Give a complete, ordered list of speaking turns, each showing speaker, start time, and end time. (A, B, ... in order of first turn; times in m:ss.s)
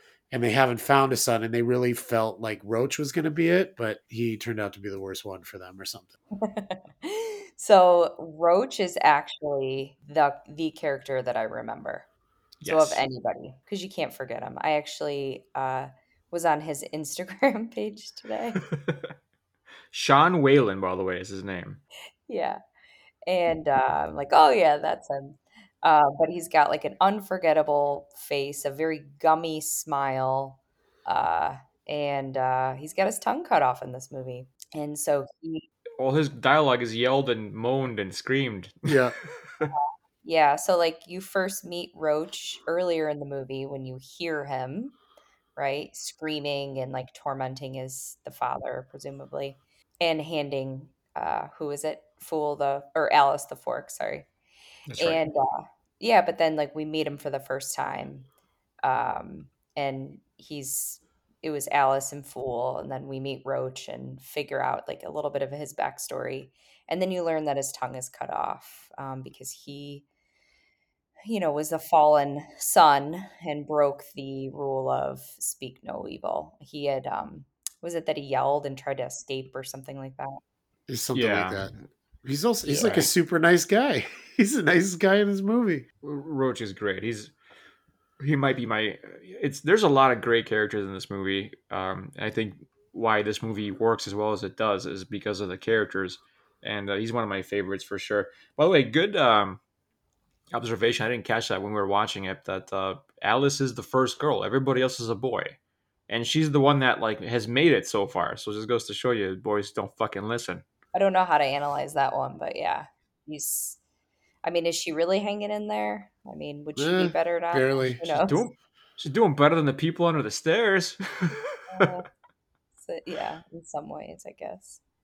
0:00.3-0:06.1 A
0:06.4-0:12.1 B
0:12.6-0:13.0 C
0:12.6-0:18.6 B
0:18.7-0:19.1 C
0:19.9-0:21.8 C
0:22.3-0:22.6 B
0:23.2-0:35.6 B
0:36.0-0:39.7 C
0:38.8-0:39.1 A
0:39.7-0:45.0 B
0:45.6-0:54.2 B
0:54.9-0:55.2 C
0:55.0-0:58.3 B
0:58.8-1:10.0 B
1:11.2-1:20.4 B
1:20.9-1:25.8 A
1:21.1-1:21.6 C
1:22.7-1:23.1 C
1:26.0-1:27.3 C
1:28.2-1:39.6 C
1:40.5-1:45.6 C
1:46.1-1:50.6 C
1:50.9-1:53.8 B
1:54.4-1:58.4 B
1:56.8-1:58.0 A
1:58.1-2:02.0 C
2:01.7-2:02.0 B
2:02.8-2:04.8 B